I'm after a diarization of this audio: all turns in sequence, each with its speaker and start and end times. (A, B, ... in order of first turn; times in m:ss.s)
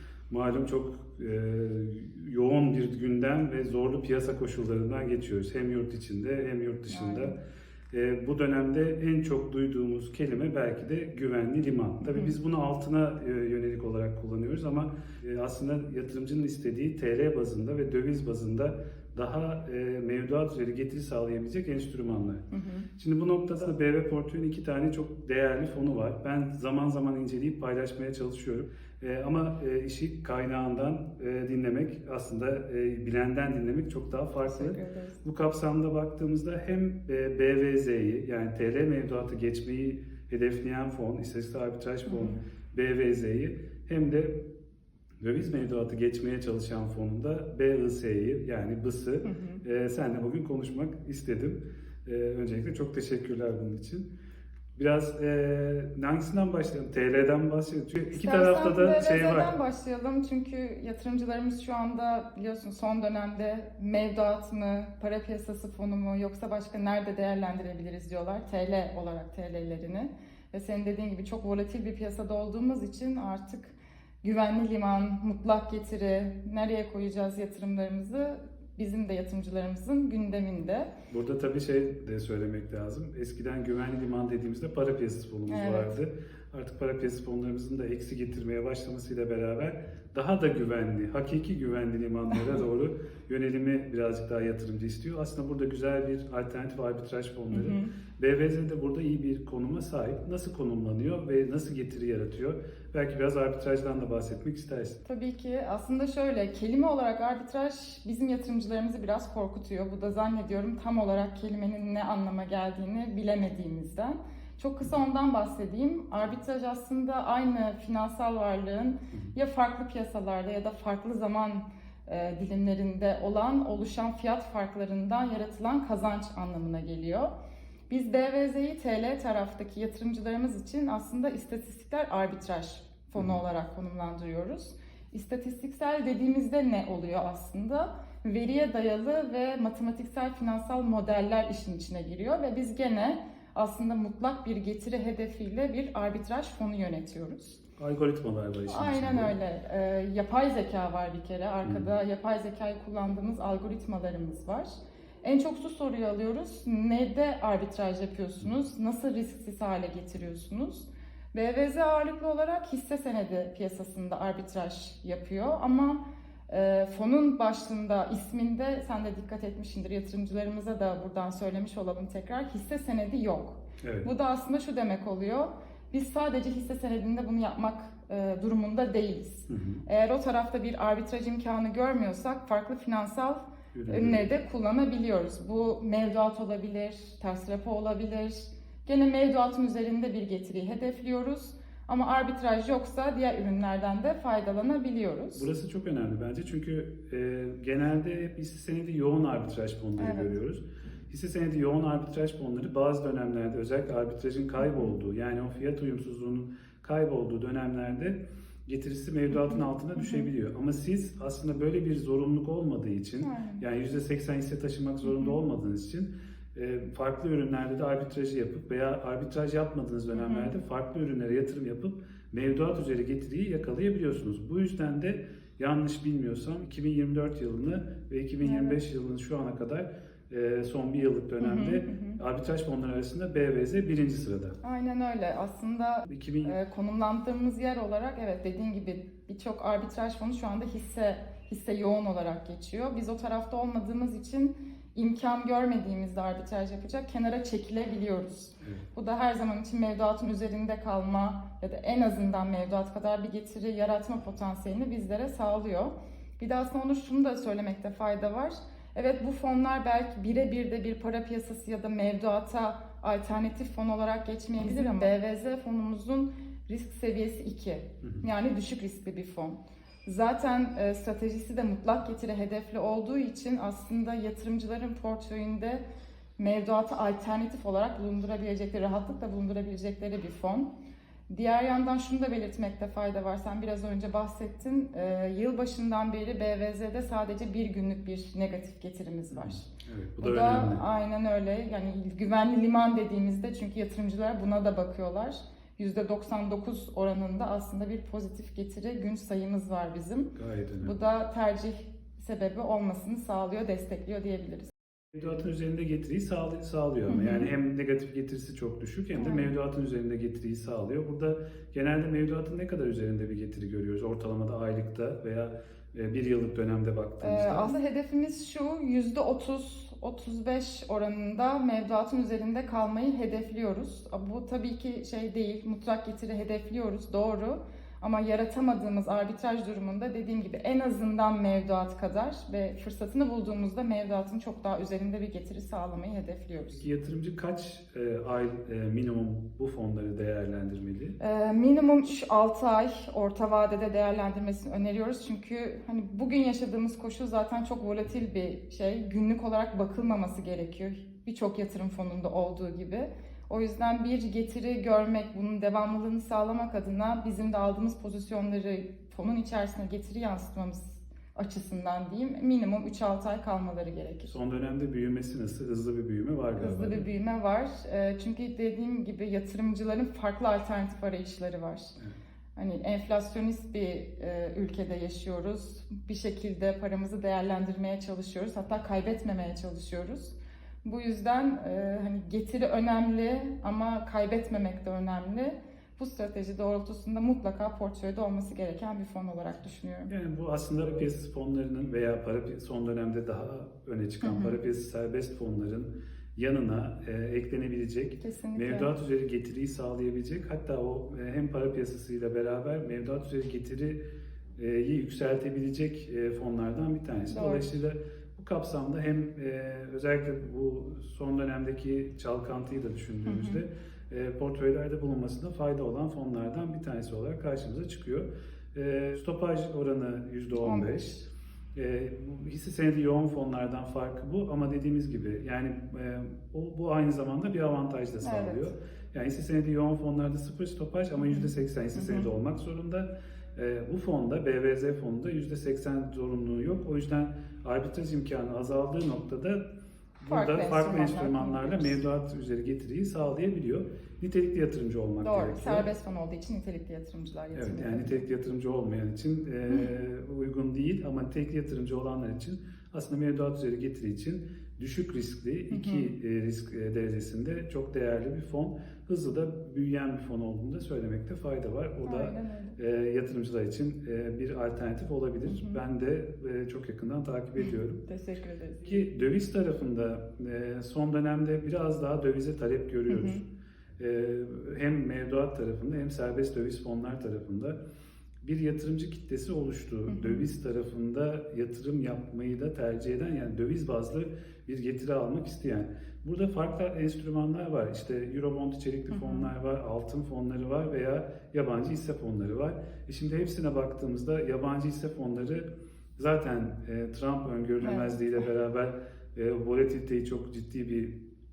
0:00.3-0:07.4 A
0:06.9-0:07.3 B
0:07.9-0:44.4 A
0:12.0-0:12.3 B
0:22.5-0:22.9 B
0:34.4-0:35.2 B
0:42.0-0:42.4 B
0:45.2-0:54.1 A
0:49.2-0:49.6 B
0:54.8-0:59.5 A
0:58.1-1:20.9 B
1:21.1-1:45.0 A
1:25.5-1:26.0 B
1:37.5-1:37.9 B
1:45.0-2:07.3 B
2:07.9-2:27.6 B
2:27.8-2:29.3 A
2:28.7-3:15.5 B
2:53.8-2:54.1 A
2:59.5-2:59.8 A
3:03.7-3:04.3 A
3:15.3-3:54.6 A
3:20.0-3:20.3 B
3:24.6-3:24.9 B
3:29.3-3:30.3 B
3:33.2-3:33.6 B
3:35.0-3:35.4 B
3:40.1-3:40.5 B
3:48.4-3:48.8 B
3:51.4-3:52.2 B
3:54.6-4:35.8 B
3:56.1-3:56.5 A
4:36.4-4:40.7 B
4:41.3-5:04.7 B
4:49.3-4:50.8 A
5:00.4-5:00.9 A
5:05.1-5:17.7 A
5:07.1-5:07.5 B
5:09.2-5:09.5 B
5:17.2-5:36.8 B
5:36.7-5:41.2 A
5:41.2-6:04.3 B
6:04.3-6:07.1 A
6:06.6-6:11.9 B
6:12.6-6:30.1 B
6:30.1-6:44.0 A
6:34.2-6:34.6 B
6:38.2-6:38.9 B
6:44.6-7:01.1 A
6:47.3-6:47.7 B
6:53.2-6:53.6 B
7:00.6-7:01.3 B
7:01.7-7:19.7 A
7:08.2-7:08.7 B
7:11.2-7:12.3 B
7:20.2-7:25.8 A
7:20.2-7:22.0 B
7:25.2-7:28.2 B
7:27.5-7:48.0 A
7:35.7-7:36.1 B
7:42.0-7:42.8 B
7:45.4-7:45.8 B
7:47.6-7:49.1 B
7:48.8-7:53.4 A
7:53.1-7:53.4 B
7:54.0-7:57.8 A
7:58.4-8:21.2 A
8:00.1-8:00.5 B
8:09.1-8:09.5 B
8:17.8-8:18.4 B